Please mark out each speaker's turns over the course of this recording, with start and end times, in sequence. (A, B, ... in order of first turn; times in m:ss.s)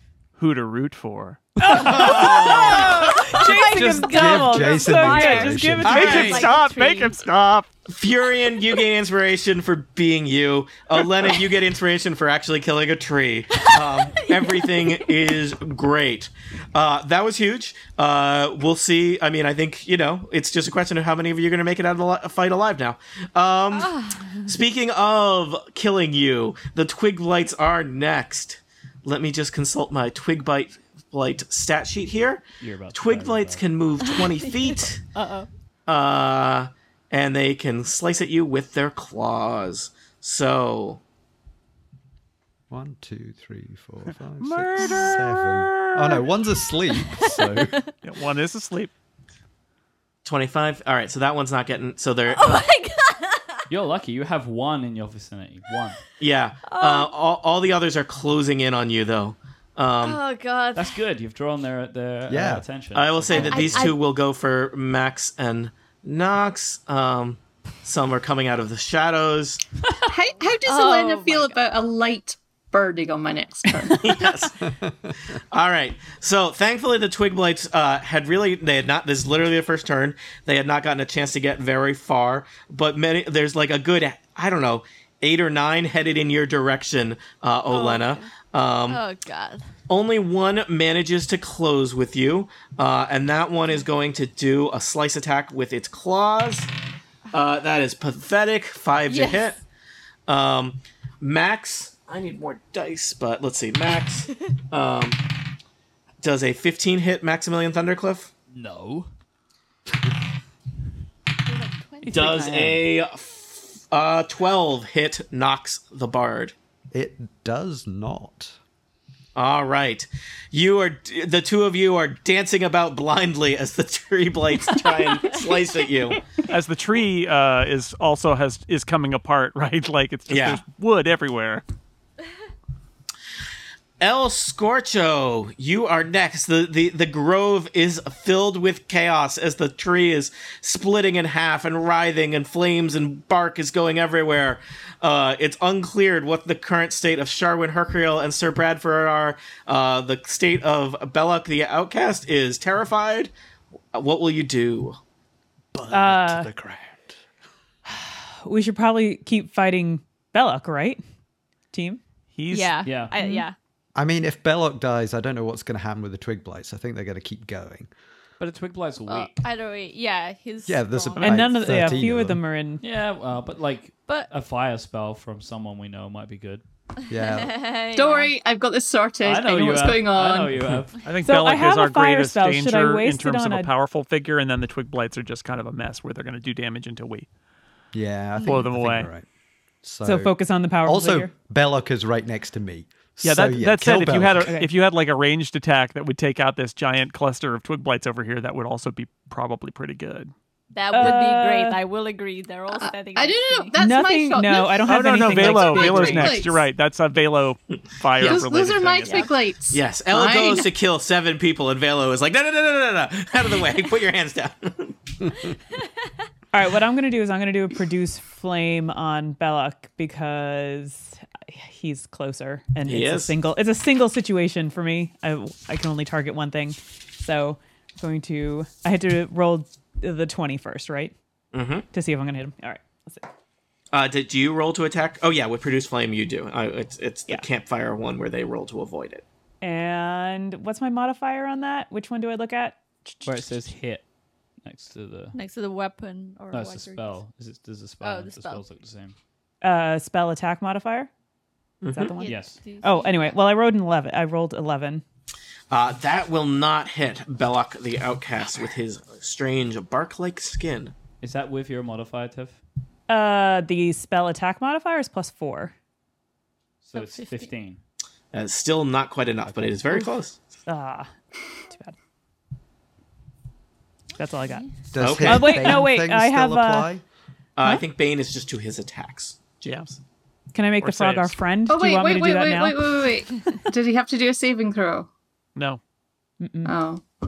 0:00.4-0:01.4 A
0:01.6-0:06.5 B
0:01.7-0:03.0 C
0:02.0-0:07.2 D
0:03.4-0:06.1 E
0:05.8-0:06.5 C
0:05.8-0:07.7 A
0:07.9-0:35.0 C
0:13.6-0:15.2 D
0:23.8-0:24.5 D
0:32.6-0:33.7 F
0:34.1-0:35.5 D
0:35.9-0:41.0 C
0:42.7-0:47.8 E
0:44.4-0:46.2 A
0:44.8-0:45.1 D
0:46.9-0:47.9 D
0:48.0-0:48.9 A
0:50.2-0:52.7 C
0:52.3-0:53.6 D
0:53.7-0:56.0 F
0:56.2-1:00.2 C
0:56.7-0:57.1 D
1:00.0-1:01.0 D
1:00.8-1:03.9 F
1:02.3-1:02.6 E
1:03.0-1:09.6 C
1:03.3-1:04.0 D
1:10.0-1:11.6 D
1:10.1-1:14.1 G
1:13.9-1:14.6 C
1:14.6-1:15.2 E
1:15.5-1:29.0 C
1:27.7-1:28.3 D
1:28.9-1:29.7 D
1:29.9-1:36.7 C
1:37.3-1:39.6 C
1:39.1-1:39.5 D
1:40.3-1:45.3 C
1:46.2-1:48.3 C
1:48.5-1:49.1 F
1:51.5-1:52.6 D
1:52.1-1:52.9 F
1:52.1-1:56.6 C
1:56.9-1:58.6 E
1:59.4-2:06.2 C
2:06.5-2:11.6 A
2:10.3-2:10.6 C
2:14.0-2:33.3 C
2:33.9-2:35.0 C
2:35.7-2:37.2 E
2:35.9-2:36.5 B
2:37.9-2:41.0 B
2:41.7-2:42.0 B
2:42.4-2:42.9 A
2:42.5-2:43.6 D
2:42.8-2:43.2 F
2:43.1-2:43.5 B
2:44.0-2:47.9 E
2:48.4-2:49.5 F
2:49.1-2:52.1 D
2:50.7-2:52.4 E
2:51.2-2:52.8 B
2:52.8-2:56.6 F
2:57.1-2:57.6 E
2:57.2-2:58.3 D
2:58.0-3:00.6 G
2:59.2-3:01.1 F
3:01.0-3:07.3 A
3:01.2-3:03.7 B
3:07.9-3:09.2 E
3:08.4-3:09.1 A
3:09.8-3:14.6 E
3:10.0-3:11.3 B
3:13.2-3:20.3 A
3:14.0-3:14.7 B
3:20.7-3:23.7 D
3:20.9-3:21.8 B
3:22.7-3:26.6 G
3:23.8-3:26.4 B
3:24.9-3:29.4 A
3:28.2-3:28.4 C
3:28.2-3:30.7 G
3:29.1-3:29.3 D
3:29.7-3:35.0 C
3:36.5-3:51.1 B
3:42.9-3:43.3 C
3:51.5-3:51.9 C
3:51.9-3:53.3 B
3:53.9-3:59.2 C
3:59.6-4:03.3 B
4:03.2-4:04.1 F
4:04.6-4:05.4 F
4:05.3-4:07.2 D
4:06.5-4:09.2 F
4:08.0-4:08.6 D
4:09.6-4:11.1 B
4:11.8-4:12.2 C
4:11.9-4:15.0 B
4:12.2-4:13.4 D
4:12.2-4:12.6 F
4:15.7-4:20.9 C
4:21.2-4:22.6 F
4:23.1-4:25.7 B
4:26.8-4:27.8 F
4:27.0-4:27.5 D
4:28.3-4:30.4 C
4:30.7-4:31.1 B
4:31.7-4:32.0 B
4:34.2-4:36.9 B
4:34.9-4:37.0 E
4:35.0-4:35.7 C
4:37.6-4:39.9 C
4:39.6-4:39.9 A
4:40.5-4:43.1 B
4:40.8-4:41.4 A
4:41.7-4:45.1 G
4:46.4-4:46.7 B
4:46.6-4:47.0 G